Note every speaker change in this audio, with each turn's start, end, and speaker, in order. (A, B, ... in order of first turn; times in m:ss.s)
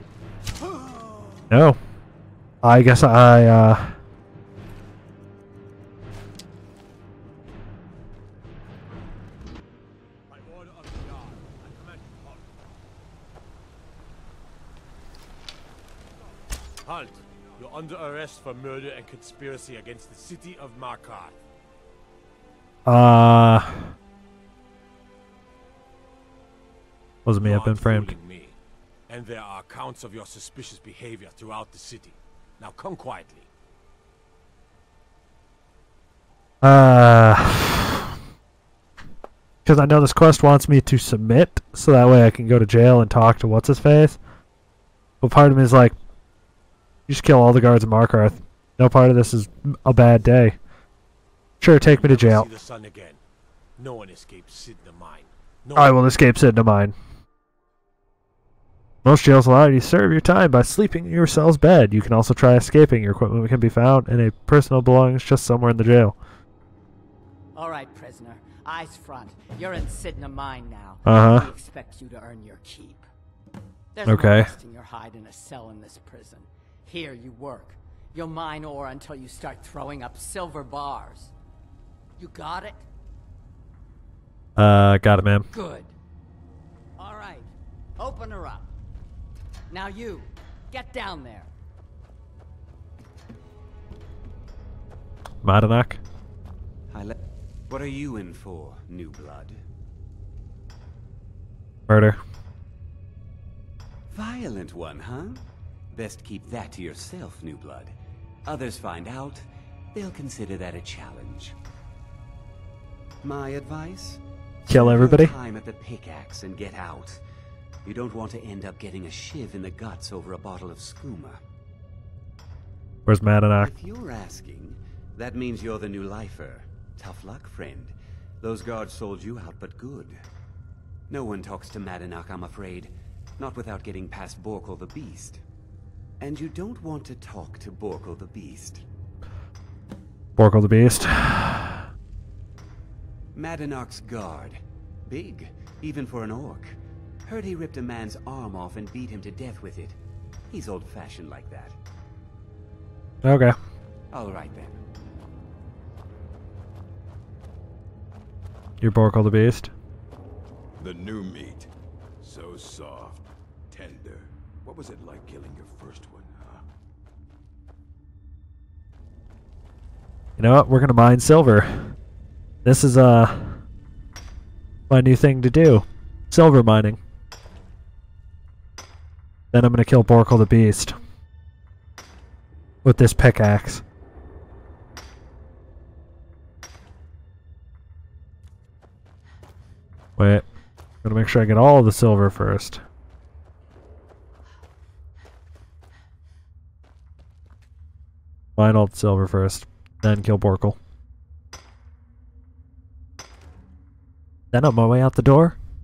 0:01.5-0:01.8 A
0:02.6-0:04.0 A
0:10.3-0:12.5 B
0:16.8-0:21.4 B
0:22.9-0:23.9 A
0:27.3-0:28.1 A
0:27.4-0:28.6 B
0:29.1-0:33.5 B
0:36.6-0:38.1 A
0:39.6-0:44.2 A
0:45.2-0:46.0 A
0:47.1-0:50.6 A
0:51.6-0:52.5 A
0:51.8-0:53.2 B
0:53.8-0:56.1 B
0:55.8-0:57.0 A
0:59.0-1:06.2 A
1:07.6-1:13.1 C
1:11.0-1:11.5 A
1:13.9-1:21.3 C
1:14.1-1:14.5 A
1:22.2-1:22.9 C
1:24.6-1:25.5 A
1:25.5-1:25.9 C
1:27.0-1:28.7 C
1:29.7-1:31.5 C
1:35.4-1:36.0 A
1:36.9-1:37.2 D
1:37.7-1:39.6 D
1:41.9-1:42.2 A
1:44.1-1:48.0 D
1:48.5-1:51.6 D
1:53.2-1:57.2 D
1:54.7-1:55.3 A
1:57.8-2:01.4 D
2:03.1-2:03.7 A
2:03.6-2:10.2 D
2:11.1-2:15.4 D
2:16.2-2:18.8 D
2:20.4-2:21.9 A
2:23.4-2:30.0 D
2:30.5-2:31.8 D
2:33.2-2:33.6 A
2:34.1-2:34.8 D
2:38.8-2:39.7 A
2:40.8-2:41.7 E
2:42.2-2:46.6 E
2:50.4-2:52.0 A
2:52.6-2:53.6 A
2:54.9-2:57.0 A
2:59.5-3:01.0 A
3:02.8-3:03.8 A
3:10.2-3:10.4 A
3:11.0-3:12.8 A
3:18.6-3:20.8 A
3:24.5-3:25.6 A